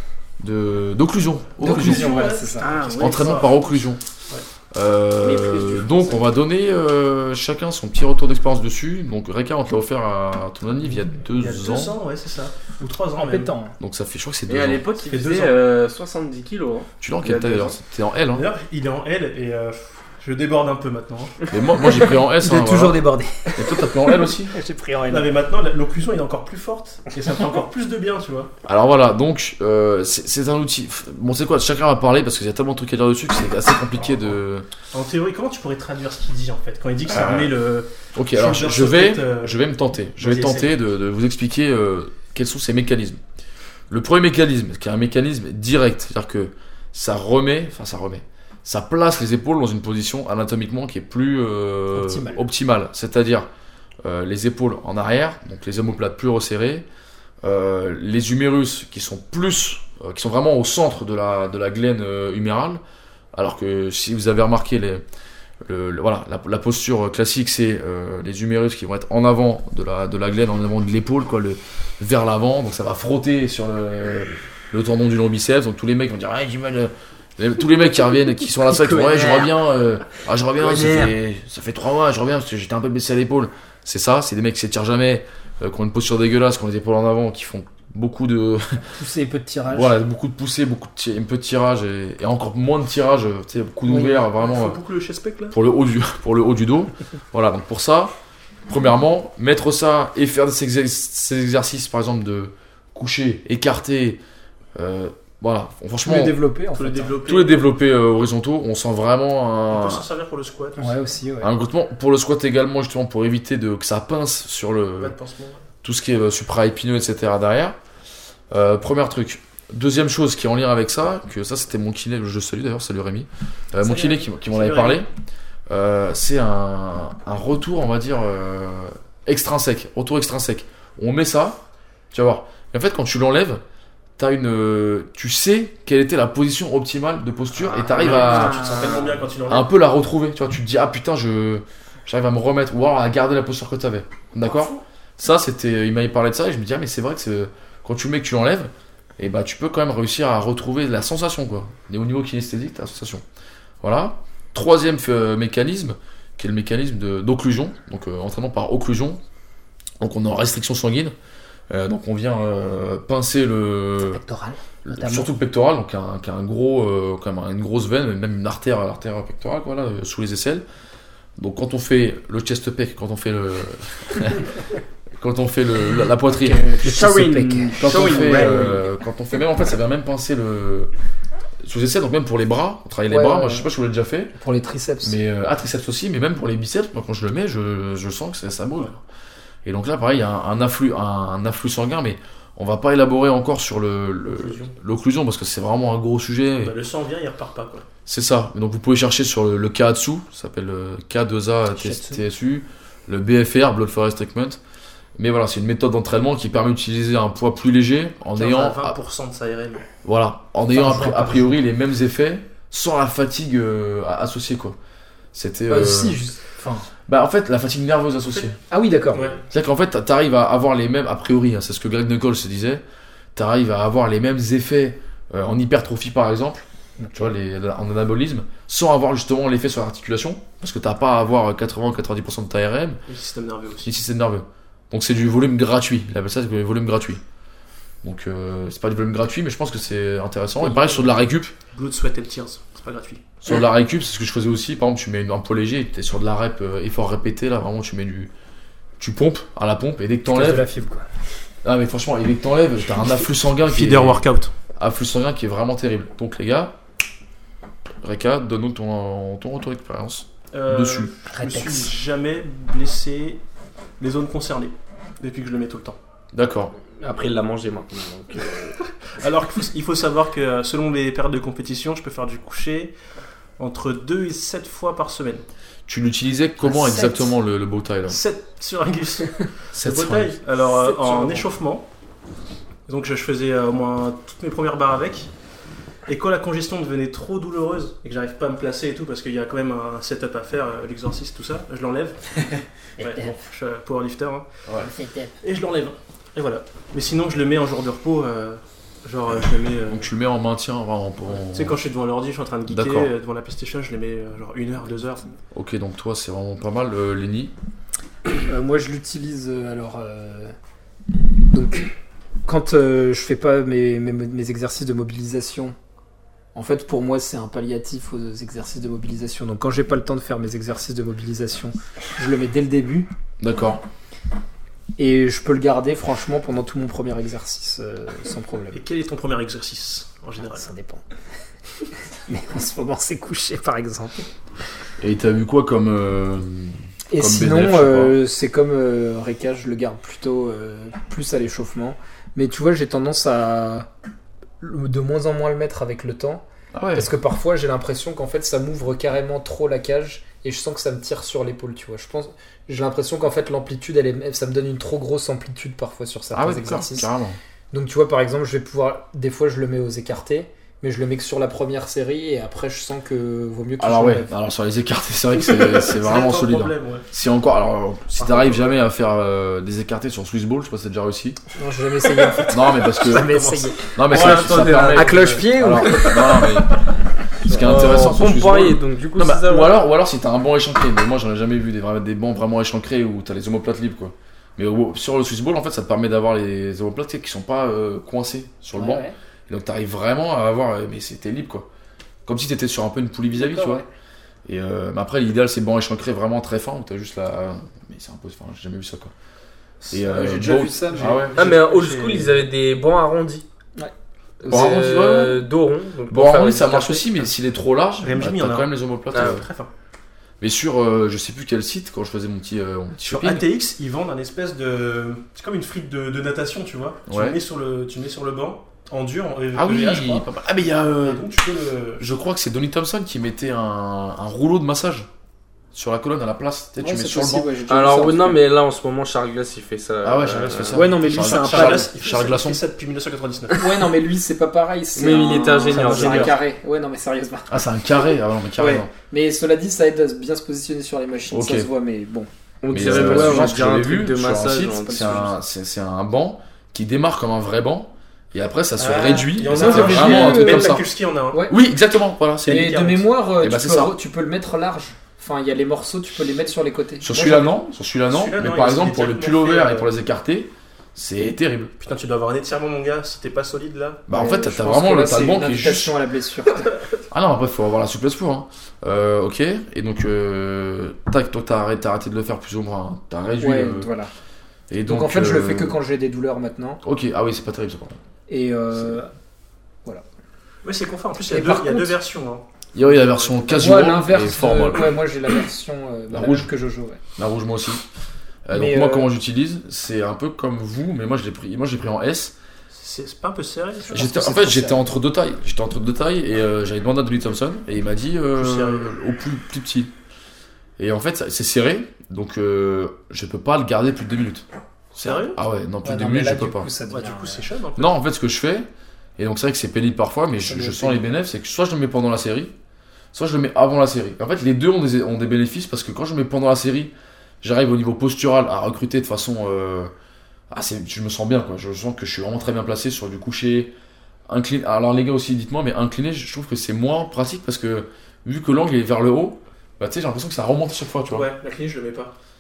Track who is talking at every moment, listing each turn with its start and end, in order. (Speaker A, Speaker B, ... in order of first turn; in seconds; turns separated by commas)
Speaker A: 0.4-2.3, Speaker B: 1.6-3.7, Speaker C: 1.6-3.1, Speaker D: 2.8-3.2, Speaker A: 2.9-4.0, Speaker A: 4.7-12.0, Speaker D: 5.2-6.3, Speaker B: 11.3-13.5, Speaker C: 13.2-13.8, Speaker A: 13.8-14.9, Speaker D: 14.5-17.8, Speaker B: 15.1-15.6, Speaker A: 17.0-18.5, Speaker B: 18.3-21.4, Speaker A: 21.5-23.0, Speaker C: 21.9-25.3, Speaker A: 23.6-24.5, Speaker B: 25.1-28.5, Speaker A: 28.6-34.7, Speaker B: 34.9-39.6, Speaker A: 37.1-37.5, Speaker A: 38.1-43.2, Speaker B: 40.2-40.7, Speaker A: 43.9-53.5, Speaker C: 51.9-52.4, Speaker A: 54.0-56.9, Speaker A: 57.4-62.8, Speaker A: 63.3-65.0, Speaker A: 65.7-88.8, Speaker C: 78.7-79.5, Speaker C: 80.7-81.1, Speaker C: 88.9-89.9, Speaker A: 89.7-94.8, Speaker C: 93.9-94.2, Speaker B: 94.4-95.6, Speaker A: 95.5-98.1, Speaker A: 98.7-104.2, Speaker A: 104.8-106.4, Speaker C: 106.0-107.2, Speaker B: 106.7-107.7, Speaker A: 107.2-110.1, Speaker B: 109.7-111.0, Speaker C: 110.8-111.5, Speaker A: 111.4-115.2, Speaker B: 115.0-115.6, Speaker A: 115.8-117.8, Speaker A: 118.5-125.1, Speaker B: 123.8-125.0, Speaker A: 125.7-131.6, Speaker A: 132.1-133.6, Speaker A: 134.2-138.9, Speaker B: 137.7-139.7, Speaker C: 138.6-139.1, Speaker A: 139.5-153.2, Speaker A: 153.8-159.2, Speaker A: 160.0-161.1, Speaker A: 161.7-164.2, Speaker C: 164.1-165.3, Speaker A: 164.8-170.6, Speaker A: 171.4-174.5, Speaker A: 175.2-176.8, Speaker C: 176.4-178.7, Speaker D: 176.7-178.8, Speaker A: 177.8-180.9, Speaker A: 181.6-184.3, Speaker C: 183.1-183.7, Speaker C: 184.4-185.2, Speaker A: 185.0-189.0, Speaker A: 189.7-196.8, Speaker B: 194.3-194.7, Speaker B: 196.6-197.9, Speaker A: 198.1-204.6, Speaker C: 201.8-202.2, Speaker A: 205.2-209.0, Speaker B: 208.3-209.9, Speaker A: 210.0-214.8, Speaker C: 210.7-211.6, Speaker A: 215.3-216.2, Speaker C: 215.7-216.9, Speaker A: 217.1-218.6, Speaker C: 218.7-219.4, Speaker B: 219.1-219.4, Speaker A: 219.5-222.8, Speaker A: 223.3-233.0, Speaker C: 227.0-227.3, Speaker B: 233.1-233.9, Speaker A: 233.8-237.2, Speaker A: 238.0-241.5, Speaker B: 240.6-241.2, Speaker B: 241.7-243.3, Speaker A: 243.4-248.3, Speaker A: 249.0-250.7, Speaker C: 250.3-251.1, Speaker A: 251.6-254.2, Speaker B: 253.6-254.5, Speaker A: 254.8-256.7, Speaker A: 258.0-261.1, Speaker B: 260.5-263.4, Speaker C: 261.3-261.9, Speaker B: 264.0-266.0, Speaker A: 266.3-266.7, Speaker D: 267.0-268.8, Speaker B: 269.2-272.9, Speaker B: 273.6-275.4, Speaker A: 275.9-278.2, Speaker C: 276.6-277.3, Speaker B: 278.1-281.9, Speaker A: 279.7-280.3, Speaker C: 280.7-281.5, Speaker B: 282.9-285.3, Speaker B: 286.1-294.5, Speaker C: 293.0-293.4, Speaker C: 294.8-295.4, Speaker B: 295.4-300.1, Speaker A: 299.9-301.8, Speaker B: 301.4-305.2, Speaker A: 302.7-303.1, Speaker A: 305.5-307.5, Speaker C: 308.5-310.6, Speaker C: 311.5-311.9, Speaker C: 312.4-315.8, Speaker C: 316.5-323.1, Speaker A: 323.4-323.8, Speaker C: 325.0-328.8, Speaker B: 328.7-330.7, Speaker C: 330.5-331.0, Speaker C: 332.3-334.2, Speaker A: 335.0-338.2, Speaker C: 337.1-343.9, Speaker C: 344.6-346.4, Speaker A: 346.7-347.1, Speaker C: 346.9-357.1, Speaker A: 356.3-357.4, Speaker C: 357.7-364.3, Speaker A: 363.8-371.4, Speaker B: 365.3-367.1, Speaker B: 368.2-368.6, Speaker C: 371.6-376.5, Speaker A: 372.5-373.4, Speaker B: 373.1-373.7, Speaker A: 373.9-376.7, Speaker D: 374.1-376.1, Speaker D: 377.4-379.8, Speaker A: 377.5-391.7, Speaker C: 388.7-389.1, Speaker A: 392.3-393.8, Speaker C: 393.3-393.9, Speaker A: 394.5-399.1, Speaker C: 399.9-401.2, Speaker A: 399.9-401.5, Speaker B: 400.9-402.4, Speaker D: 401.4-403.4, Speaker D: 404.4-407.2, Speaker A: 404.5-405.5, Speaker A: 406.1-409.5, Speaker B: 408.0-409.7, Speaker D: 409.1-409.4, Speaker A: 410.4-413.4, Speaker B: 413.1-422.1, Speaker A: 417.1-417.4, Speaker A: 419.5-421.3, Speaker A: 422.0-425.1, Speaker A: 425.7-427.5, Speaker C: 426.8-428.4, Speaker D: 427.7-430.9, Speaker A: 430.0-432.6, Speaker C: 430.7-431.9, Speaker B: 431.0-433.7, Speaker C: 433.5-437.6, Speaker D: 435.0-436.4, Speaker B: 435.7-436.4, Speaker A: 437.5-438.9, Speaker C: 438.6-442.3, Speaker A: 441.3-441.7, Speaker D: 442.6-445.3, Speaker A: 442.7-450.8, Speaker C: 442.8-443.6, Speaker C: 448.8-451.6, Speaker B: 449.3-451.4, Speaker A: 451.5-452.7, Speaker B: 452.4-453.1, Speaker C: 452.5-457.5, Speaker A: 453.4-453.9, Speaker A: 457.0-461.7, Speaker B: 458.1-459.9, Speaker B: 461.8-464.2, Speaker A: 464.1-465.9, Speaker C: 464.1-466.7, Speaker A: 467.1-473.9, Speaker C: 473.4-474.1, Speaker A: 474.7-475.8, Speaker C: 474.9-476.8, Speaker A: 476.8-478.0, Speaker C: 478.3-479.1, Speaker B: 480.6-483.9, Speaker C: 481.3-482.0, Speaker A: 482.8-484.9, Speaker C: 483.5-487.0, Speaker A: 486.1-486.5, Speaker A: 487.2-487.8, Speaker A: 488.5-492.3, Speaker C: 488.5-489.1, Speaker B: 492.7-494.1, Speaker C: 493.9-494.9, Speaker A: 493.9-499.9, Speaker B: 498.4-498.9, Speaker A: 500.8-506.7, Speaker B: 505.0-505.4, Speaker C: 505.8-507.5, Speaker B: 506.9-507.9, Speaker A: 507.8-508.7, Speaker A: 509.2-512.5, Speaker C: 510.4-511.0, Speaker A: 513.1-519.9, Speaker A: 520.5-523.7, Speaker A: 524.3-531.3, Speaker B: 531.1-532.1